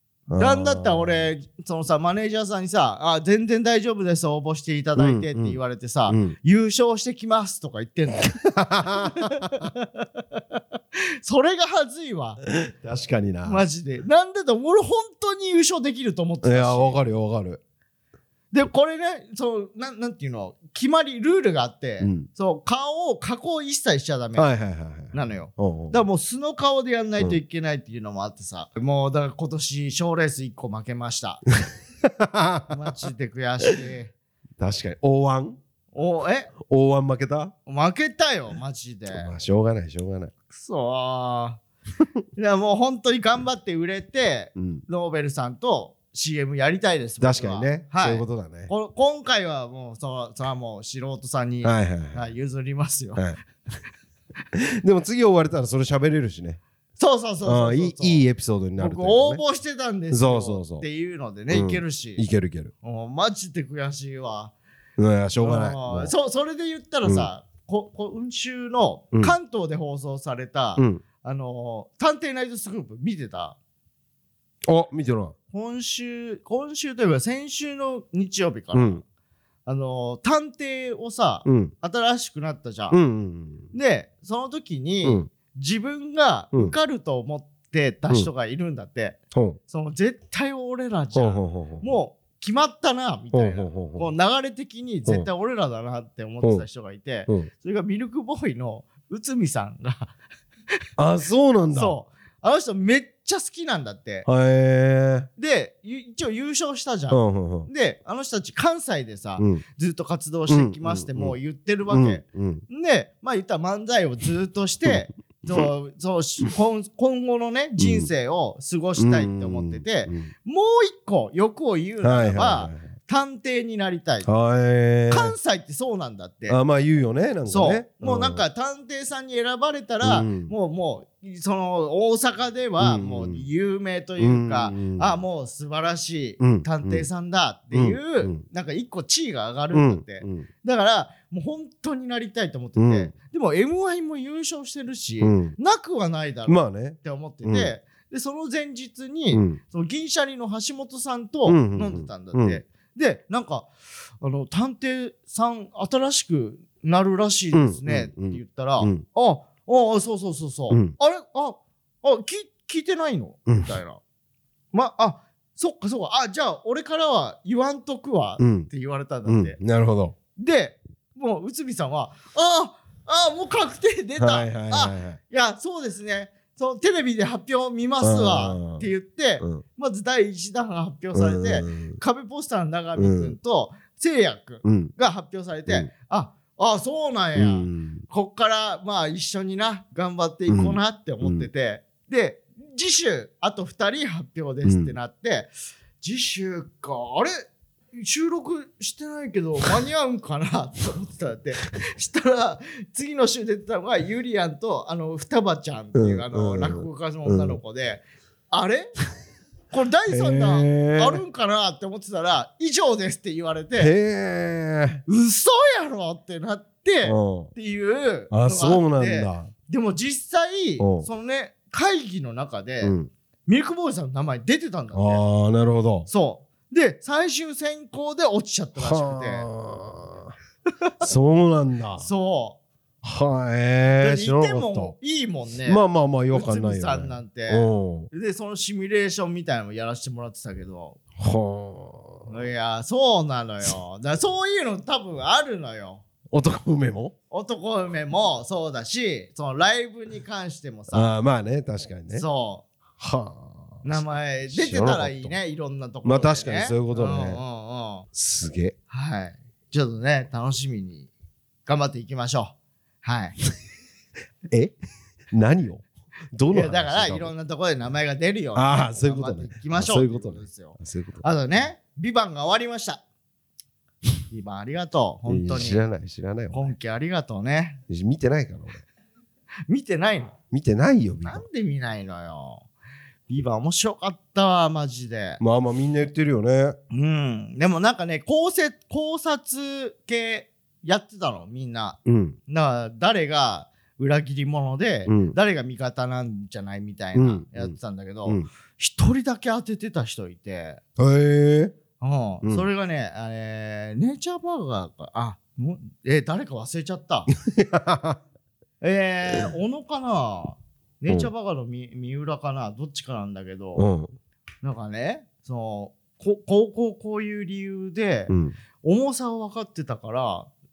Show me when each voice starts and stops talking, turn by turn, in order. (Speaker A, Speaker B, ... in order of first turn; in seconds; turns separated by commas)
Speaker A: 0.3-1.3, Speaker B: 0.4-8.4, Speaker A: 5.0-6.3, Speaker A: 8.4-9.6, Speaker B: 8.9-12.4, Speaker A: 12.6-13.6, Speaker B: 13.4-17.0, Speaker A: 16.4-17.6, Speaker B: 18.5-24.5, Speaker A: 22.0-22.3, Speaker A: 24.3-26.0, Speaker B: 25.1-31.4, Speaker A: 32.2-32.8, Speaker B: 32.7-34.1, Speaker A: 34.6-35.6, Speaker B: 35.9-36.5, Speaker A: 36.6-37.5, Speaker B: 37.6-39.3, Speaker A: 39.1-40.3, Speaker B: 40.5-41.6, Speaker B: 42.3-53.2, Speaker A: 44.5-44.8, Speaker A: 47.2-48.7, Speaker A: 51.6-52.3, Speaker A: 54.5-56.6, Speaker B: 57.0-58.2, Speaker A: 57.4-59.4, Speaker B: 58.8-62.2, Speaker A: 60.1-60.9, Speaker A: 61.5-62.7, Speaker B: 62.8-64.5, Speaker A: 65.0-66.1, Speaker B: 65.4-73.6, Speaker A: 70.8-71.0, Speaker A: 74.7-75.3, Speaker B: 75.5-79.0, Speaker A: 78.7-79.0, Speaker B: 79.7-83.0, Speaker A: 81.4-81.7, Speaker A: 82.9-83.7, Speaker B: 83.7-100.1, Speaker A: 85.0-85.3, Speaker A: 89.3-89.6, Speaker A: 91.1-91.9, Speaker A: 93.3-94.1, Speaker A: 101.0-101.9, Speaker B: 101.7-104.3, Speaker A: 104.2-105.3, Speaker B: 105.4-124.3, Speaker A: 107.1-107.7, Speaker A: 109.4-109.6, Speaker A: 110.5-111.4, Speaker A: 111.9-112.6, Speaker A: 117.8-118.1, Speaker A: 119.0-120.3, Speaker A: 122.0-122.9, Speaker A: 124.2-125.3, Speaker B: 125.1-126.6, Speaker A: 126.5-128.4, Speaker B: 127.5-164.0, Speaker A: 130.0-130.5, Speaker A: 132.8-133.5, Speaker A: 134.2-135.2, Speaker A: 136.4-137.1, Speaker A: 137.7-138.4, Speaker A: 139.7-140.5, Speaker A: 142.8-143.1, Speaker A: 145.2-145.6, Speaker A: 146.5-147.7, Speaker A: 149.3-149.6, Speaker A: 151.4-152.6, Speaker A: 157.5-159.0, Speaker A: 160.7-160.9, Speaker A: 163.5-163.8, Speaker B: 164.7-169.6, Speaker A: 168.4-168.7, Speaker A: 169.2-170.1, Speaker B: 170.3-208.9, Speaker A: 174.2-175.2, Speaker A: 178.0-178.9, Speaker A: 181.1-182.0, Speaker A: 182.9-183.3, Speaker A: 184.6-184.9, Speaker A: 187.3-188.0, Speaker A: 190.5-191.5, Speaker A: 194.6-194.9, Speaker A: 205.9-207.6, Speaker B: 209.7-213.9, Speaker A: 210.1-211.2, Speaker A: 213.8-215.0, Speaker B: 215.1-222.9, Speaker A: 217.0-217.5, Speaker A: 218.3-219.5, Speaker A: 220.8-221.1, Speaker A: 222.8-223.1, Speaker B: 223.5-225.2, Speaker A: 224.9-226.1, Speaker B: 226.1-229.4, Speaker A: 228.8-230.3, Speaker A: 231.0-232.1, Speaker B: 232.0-232.6, Speaker A: 233.0-234.9, Speaker B: 234.0-241.0, Speaker A: 235.7-238.1, Speaker A: 241.2-242.3, Speaker B: 242.3-246.0, Speaker A: 246.3-247.1, Speaker B: 247.3-251.1, Speaker A: 250.9-252.2, Speaker B: 252.1-252.7, Speaker A: 253.0-253.8, Speaker B: 253.8-258.1, Speaker A: 254.5-255.4, Speaker A: 256.0-257.4, Speaker A: 258.1-258.8, Speaker B: 258.9-261.1, Speaker B: 261.6-263.3, Speaker A: 265.3-267.3, Speaker B: 266.5-273.0, Speaker A: 268.5-271.2, Speaker B: 274.3-275.8, Speaker A: 275.3-276.7, Speaker B: 276.5-277.8, Speaker A: 277.9-278.8, Speaker B: 279.7-280.4, Speaker A: 280.5-281.4, Speaker B: 281.2-282.6, Speaker B: 283.3-285.4, Speaker A: 285.4-286.8, Speaker B: 286.9-300.8, Speaker A: 292.0-292.4, Speaker A: 295.1-295.4, Speaker A: 297.1-298.5, Speaker A: 301.0-301.7, Speaker B: 302.0-307.3, Speaker A: 307.4-308.2, Speaker B: 308.8-313.9, Speaker A: 313.8-314.1, Speaker B: 314.6-318.3, Speaker A: 318.3-318.6, Speaker B: 318.8-320.5